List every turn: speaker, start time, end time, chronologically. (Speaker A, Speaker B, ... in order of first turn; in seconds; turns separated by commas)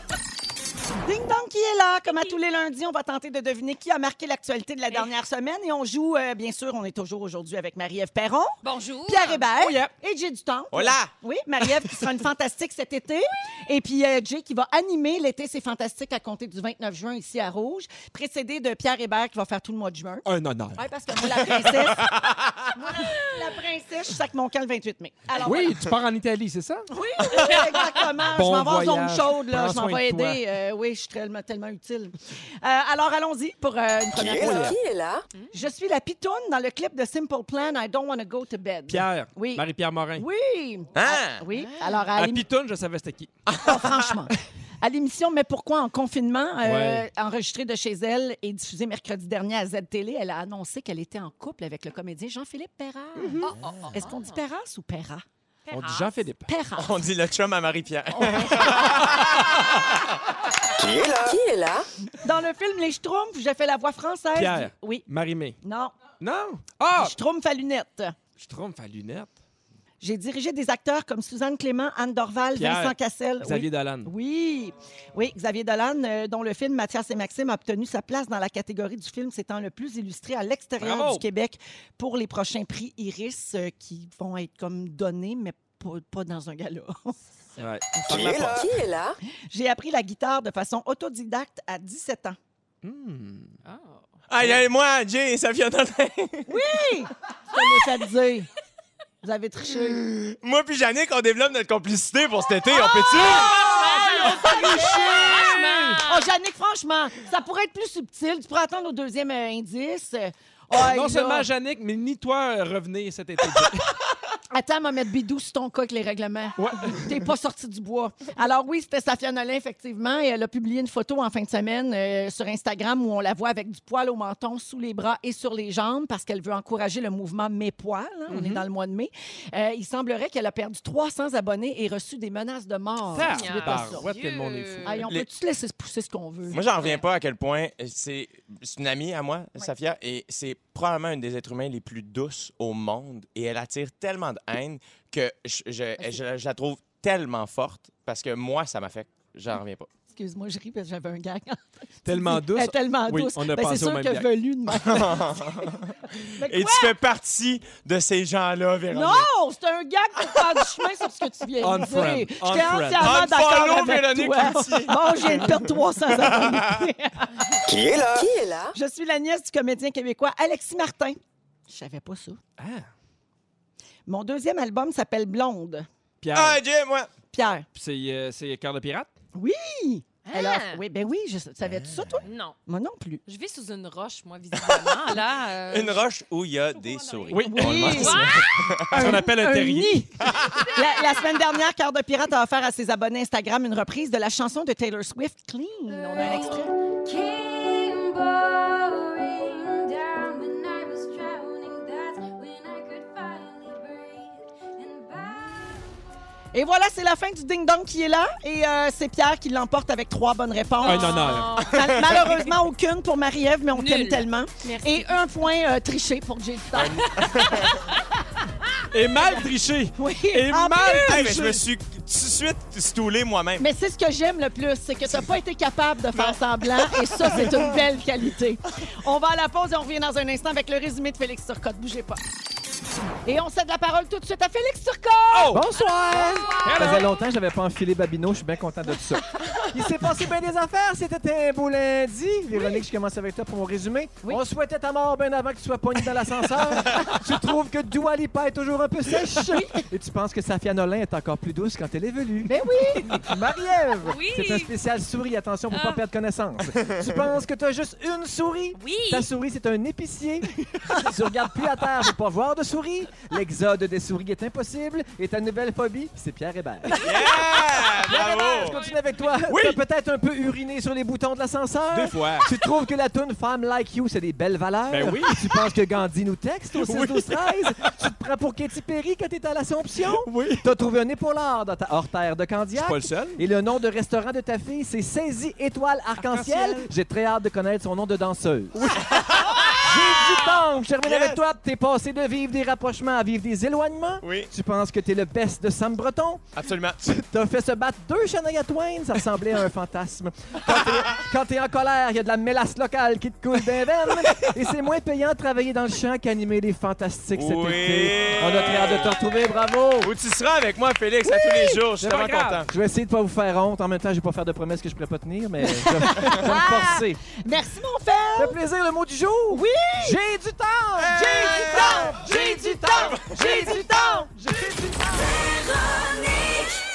Speaker A: 0.9-25.8, Speaker B: 8.6-9.5, Speaker C: 9.5-9.9, Speaker D: 10.7-11.1, Speaker C: 20.2-20.8, Speaker D: 21.4-22.7, Speaker C: 25.4-26.9, Speaker A: 26.9-34.8, Speaker C: 27.4-30.4, Speaker E: 34.1-35.2, Speaker C: 34.3-34.8, Speaker A: 35.5-39.6, Speaker C: 38.9-40.2, Speaker A: 40.1-42.4, Speaker D: 40.9-41.4, Speaker C: 42.1-43.3, Speaker D: 43.5-44.1, Speaker A: 43.6-55.2, Speaker C: 46.6-47.1, Speaker C: 53.2-53.5, Speaker B: 53.4-54.4, Speaker B: 55.7-56.1, Speaker C: 55.7-56.5, Speaker A: 56.5-56.9, Speaker D: 56.8-59.6, Speaker A: 58.1-59.1, Speaker E: 60.8-61.9, Speaker A: 62.1-65.0, Speaker C: 64.3-65.6, Speaker A: 65.6-65.9, Speaker C: 66.2-67.2, Speaker A: 66.9-68.2, Speaker C: 68.4-69.3, Speaker A: 70.0-87.2, Speaker C: 72.5-74.1, Speaker C: 80.8-81.2, Speaker C: 87.6-88.7, Speaker A: 88.0-88.5, Speaker E: 88.0-89.2, Speaker A: 89.5-92.4, Speaker C: 92.8-93.5, Speaker B: 93.6-94.0, Speaker D: 94.3-96.7, Speaker A: 96.5-98.5, Speaker A: 99.2-100.1, Speaker D: 99.7-103.6, Speaker B: 103.0-106.3, Speaker A: 103.2-111.5, Speaker C: 103.5-106.0, Speaker C: 110.7-113.9, Speaker A: 114.5-134.0, Speaker C: 116.6-117.1, Speaker C: 128.3-128.7, Speaker C: 133.1-135.1, Speaker B: 133.3-135.0, Speaker A: 134.8-136.6, Speaker D: 136.5-149.9, Speaker A: 150.1-156.9, Speaker C: 152.0-154.3, Speaker D: 154.7-159.3, Speaker A: 158.9-167.6, Speaker C: 161.6-163.1, Speaker D: 163.0-166.8, Speaker C: 164.5-164.8, Speaker E: 167.7-168.8, Speaker A: 168.7-171.2, Speaker A: 171.7-172.4, Speaker C: 172.6-172.9, Speaker A: 174.1-175.9, Speaker C: 176.2-176.6, Speaker D: 176.3-177.1, Speaker A: 177.3-177.7, Speaker C: 177.7-179.1, Speaker A: 179.3-183.2, Speaker B: 180.2-180.8, Speaker D: 181.6-182.2, Speaker B: 182.2-182.6, Speaker B: 183.2-186.0, Speaker D: 184.6-185.0, Speaker D: 185.7-189.3, Speaker B: 186.7-188.5, Speaker C: 187.3-188.0, Speaker A: 187.4-188.3, Speaker C: 188.9-190.0, Speaker A: 188.9-196.7, Speaker D: 190.2-190.8, Speaker F: 196.2-205.9, Speaker A: 206.5-217.5, Speaker B: 210.8-212.5, Speaker C: 210.8-211.6, Speaker D: 211.6-212.2, Speaker B: 213.7-215.1, Speaker D: 216.7-217.8, Speaker C: 218.9-221.6, Speaker A: 219.9-221.4, Speaker D: 221.0-223.7, Speaker A: 223.6-232.2, Speaker A: 233.2-235.6, Speaker C: 235.3-235.7, Speaker G: 235.5-267.2, Speaker A: 236.1-236.6, Speaker C: 236.3-237.1, Speaker A: 252.4-253.2, Speaker B: 254.0-254.7, Speaker B: 255.7-256.0, Speaker B: 258.8-259.3, Speaker D: 267.0-268.8, Speaker G: 267.9-289.0, Speaker B: 268.0-269.4, Speaker C: 269.5-269.8, Speaker C: 271.9-272.5, Speaker C: 274.9-275.7, Speaker C: 276.8-277.9, Speaker C: 280.0-280.7, Speaker C: 282.7-283.4, Speaker C: 286.2-286.9, Speaker C: 288.8-289.1, Speaker D: 289.1-289.7, Speaker G: 289.7-296.5, Speaker D: 291.0-291.4, Speaker D: 294.2-294.5, Speaker D: 296.6-297.0, Speaker G: 297.0-310.1, Speaker D: 300.7-301.2, Speaker D: 307.3-309.1, Speaker D: 310.0-312.7, Speaker A: 311.5-311.8, Speaker C: 312.0-312.7, Speaker G: 312.7-317.2, Speaker A: 315.8-318.6, Speaker G: 318.4-325.8, Speaker A: 319.5-320.2, Speaker D: 321.0-322.0, Speaker A: 321.1-324.3, Speaker D: 323.0-323.4